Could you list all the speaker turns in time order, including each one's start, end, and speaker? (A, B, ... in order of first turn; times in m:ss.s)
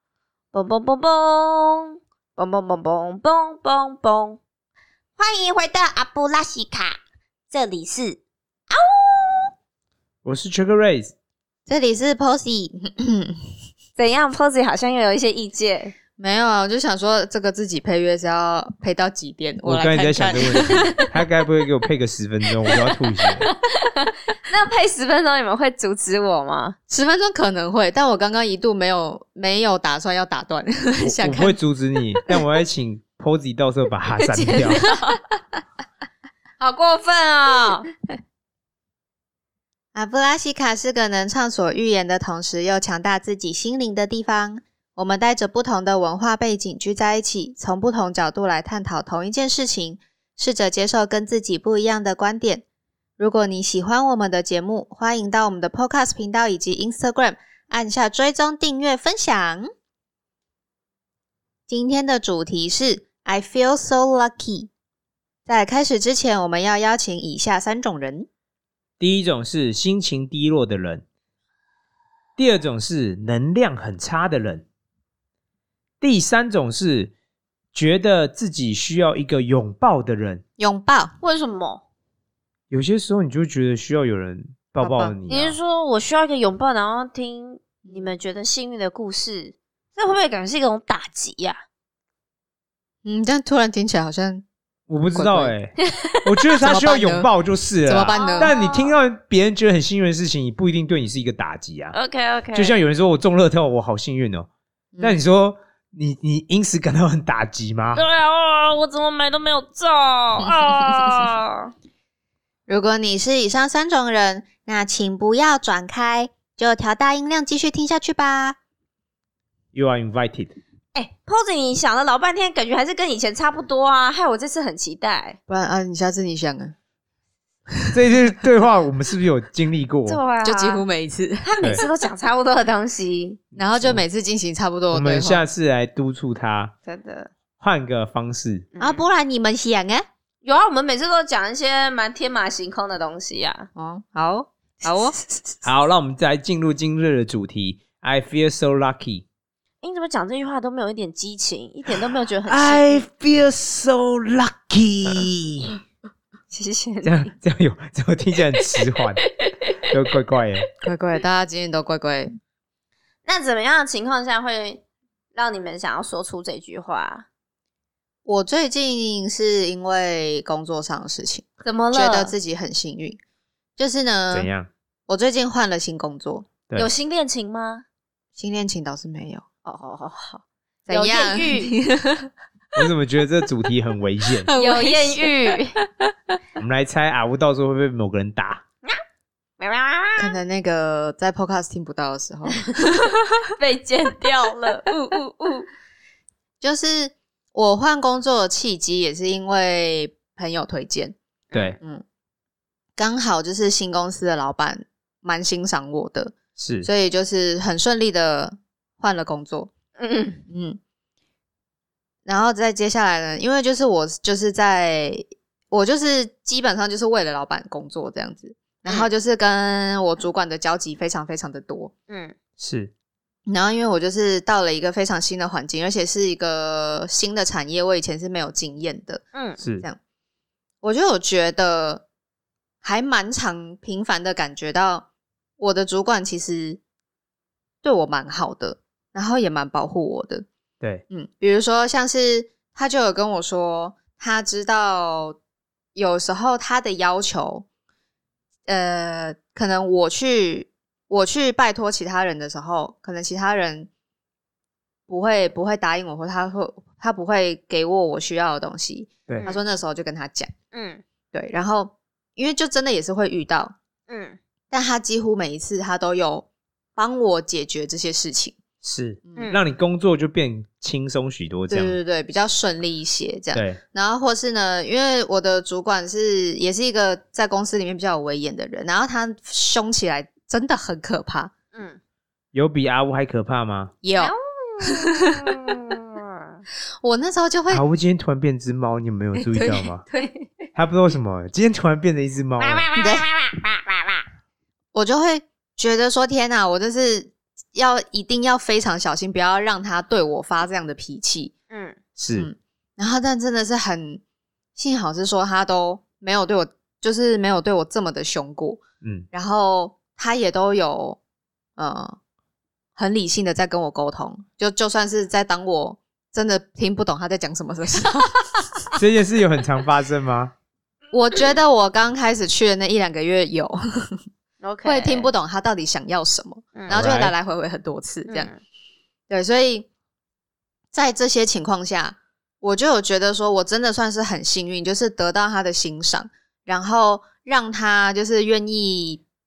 0:00.5-0:04.4 A
0:05.2-0:07.0 A
0:07.5-0:08.2 A
0:08.7-0:09.5 A
0:10.2-0:11.1 B
0:11.7-0:13.4 C
0:14.0-0:15.9 A
0:16.2-0:21.0 C
0:19.6-0:23.5 B
0:20.7-0:21.1 A
0:23.4-0:26.8 A
0:26.9-0:31.6 C
0:31.0-0:34.8 B
0:34.2-0:35.2 A
0:36.6-0:37.9 A
0:39.9-0:52.6 C
0:53.2-0:59.7 C
1:01.7-1:04.7 C
1:05.5-1:08.3 C
1:09.0-1:11.0 B
1:12.4-1:14.7 B
1:16.0-1:17.1 B
1:17.7-1:20.4 B
1:20.6-1:21.2 C
1:21.2-1:21.8 A
1:22.7-1:25.6 B
1:24.8-1:25.1 C
1:25.3-1:31.6 A
1:33.0-1:34.4 C
1:34.9-1:42.0 B
1:35.1-1:35.5 C
1:35.8-1:36.2 A
1:36.6-1:37.3 C
1:37.8-1:38.6 C
1:38.1-1:38.9 A
1:41.9-1:42.8 A
1:42.5-1:44.5 B
1:44.9-1:45.2 C
1:45.0-1:48.0 B
1:48.0-1:51.7 A
1:50.4-1:51.0 C
1:52.7-1:58.6 C
1:59.7-2:00.5 B
2:00.9-2:05.4 A
2:05.5-2:06.7 C
2:07.9-2:10.2 B
2:10.1-2:10.8 A
2:10.4-2:11.5 C
2:11.4-2:13.4 A
2:13.6-2:14.0 B
2:13.6-2:15.4 C
2:14.9-2:16.7 B
2:16.9-2:17.3 A
2:17.6-2:18.7 B
2:18.8-2:19.0 A
2:18.8-2:20.1 C
2:20.4-2:23.7 A
2:23.8-2:25.1 C
2:24.9-2:25.4 A
2:25.6-2:29.3 B
2:29.8-2:33.0 A
2:32.5-2:35.8 B
2:36.5-2:37.3 A
2:37.0-2:39.2 B
2:39.3-2:39.8 A
2:39.9-2:40.7 B
2:40.8-2:42.3 C
2:43.2-2:44.8 A
2:45.3-2:47.3 A
2:48.3-2:53.2 C
2:51.6-2:52.3 A
2:53.8-2:54.5 C
2:54.3-2:54.7 B
2:55.1-2:56.5 C
2:56.8-2:57.8 A
2:58.4-2:59.4 C
2:59.6-3:01.7 A
3:00.9-3:02.3 C
3:02.8-3:04.5 B
3:04.4-3:05.6 C
3:04.5-3:05.8 A
3:06.6-3:08.6 B
3:09.6-3:10.4 A
3:10.2-3:13.2 C
3:13.6-3:14.9 A
3:14.9-3:15.2 C
3:16.6-3:21.2 C
3:23.0-3:29.7 C
3:26.6-3:26.9 B
3:30.0-3:30.4 A
3:30.5-3:30.8 C
3:32.3-3:41.9 C
3:42.1-3:42.3 A
3:42.6-3:42.9 B
3:43.5-3:49.2 C
3:49.3-3:49.6 A
3:49.6-3:49.8 B
3:50.8-3:52.0 C
3:52.8-3:55.1 C
3:55.6-3:56.8 C
3:57.8-4:00.5 C
4:01.1-4:05.4 C
4:06.0-4:07.7 C
4:08.7-4:13.9 C
4:15.1-4:20.5 C
4:20.7-4:21.0 A
4:21.3-4:23.8 C
4:24.1-4:24.4 A
4:24.7-4:28.6 C
4:28.8-4:32.0 B
4:29.3-4:29.6 C
4:31.7-4:41.5 C
4:33.5-4:33.8 B
4:41.7-4:42.0 A
4:42.5-4:43.9 B
4:44.0-4:45.5 C
4:44.2-4:46.6 A
4:47.0-4:47.8 C
4:47.7-4:50.0 B
4:49.4-4:50.5 C
4:50.8-4:52.9 B
4:52.6-4:54.2 A
4:53.0-4:53.3 C
4:54.9-5:01.5 C
5:01.7-5:02.0 A
5:02.2-5:02.5 B
5:02.3-5:04.2 C
5:04.8-5:11.2 C
5:09.0-5:09.3 B
5:11.8-5:12.2 C
5:13.0-5:18.9 C
5:19.0-5:20.5 B
5:21.1-5:24.2 C
5:24.6-5:25.3 A
5:24.8-5:28.5 C
5:26.9-5:27.3 B
5:28.3-5:28.6 A
5:29.3-5:29.9 C
5:30.9-5:39.2 C